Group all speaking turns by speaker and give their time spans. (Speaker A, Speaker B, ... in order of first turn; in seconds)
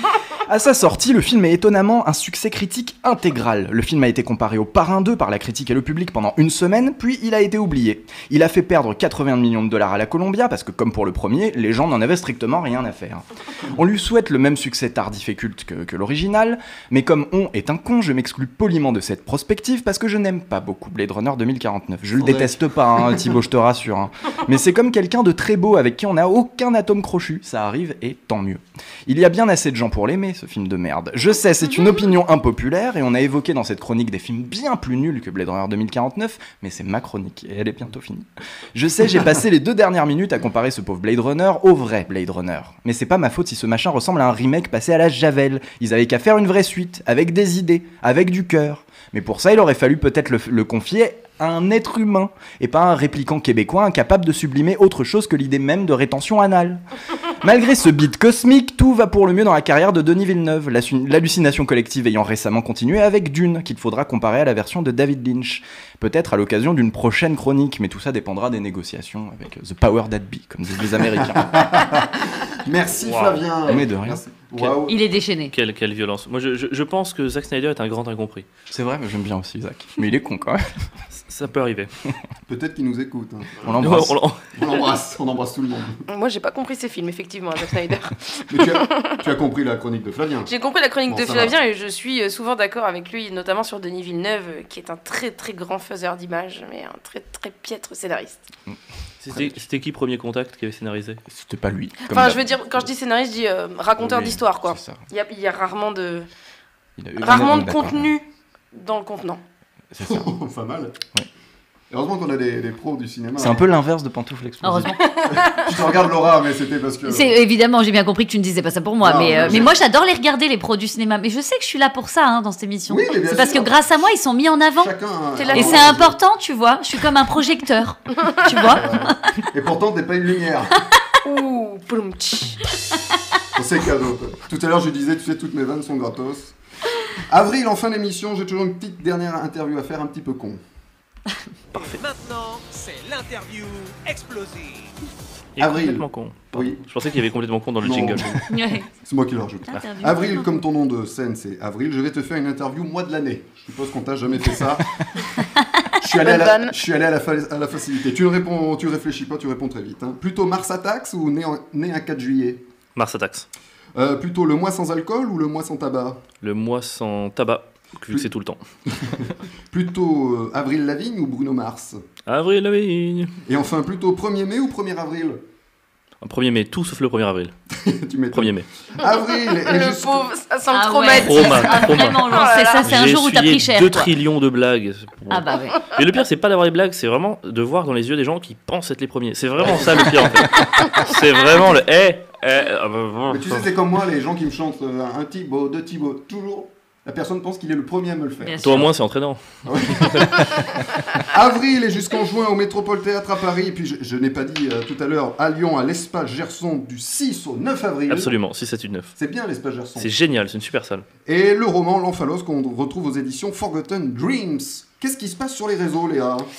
Speaker A: 0.5-56.8, 57.4-71.8, 73.7-74.2, 78.7-80.7, 83.6-84.2, 99.3-99.6, 101.3-102.4, 104.0-105.0, 107.0-108.1, 109.9-110.3, 113.4-115.3
Speaker B: 22.2-23.3, 71.2-75.0, 82.5-83.8, 84.5-86.0, 88.5-90.5, 91.1-91.6, 110.0-111.0, 111.9-113.7, 115.5-117.4, 119.0-119.7, 122.9-123.8, 124.8-126.2, 128.6-130.8, 133.5-136.6, 137.2-140.6, 145.6-146.8, 147.8-148.4, 148.9-155.0, 156.0-162.7, 163.9-166.2, 168.9-172.0, 173.4-175.4, 177.7-180.3, 189.6-190.4, 193.3-198.9, 199.7-200.6, 201.2-208.3, 209.2-210.1, 211.3-216.5
Speaker C: 73.0-73.5, 75.5-78.5, 81.1-81.9, 83.8-84.4, 99.2-101.2, 141.7-142.0, 145.6-148.3, 162.9-163.5, 166.4-168.6, 172.3-173.3, 176.2-177.5, 178.3-178.7, 181.1-193.7, 198.6-200.5, 208.1-209.1, 210.0-211.1
Speaker D: 74.9-75.5, 114.6-115.0, 117.0-124.9, 125.5-129.2, 148.5-148.9, 149.7-150.5, 180.7-184.1, 185.3-185.8, 198.4-198.8
Speaker E: 86.1-89.1, 90.5-98.5, 102.1-106.3, 107.2-109.4, 115.2-115.6, 125.4-125.9, 131.2-132.6, 156.2-156.7, 179.0-182.9
Speaker F: 141.8-144.9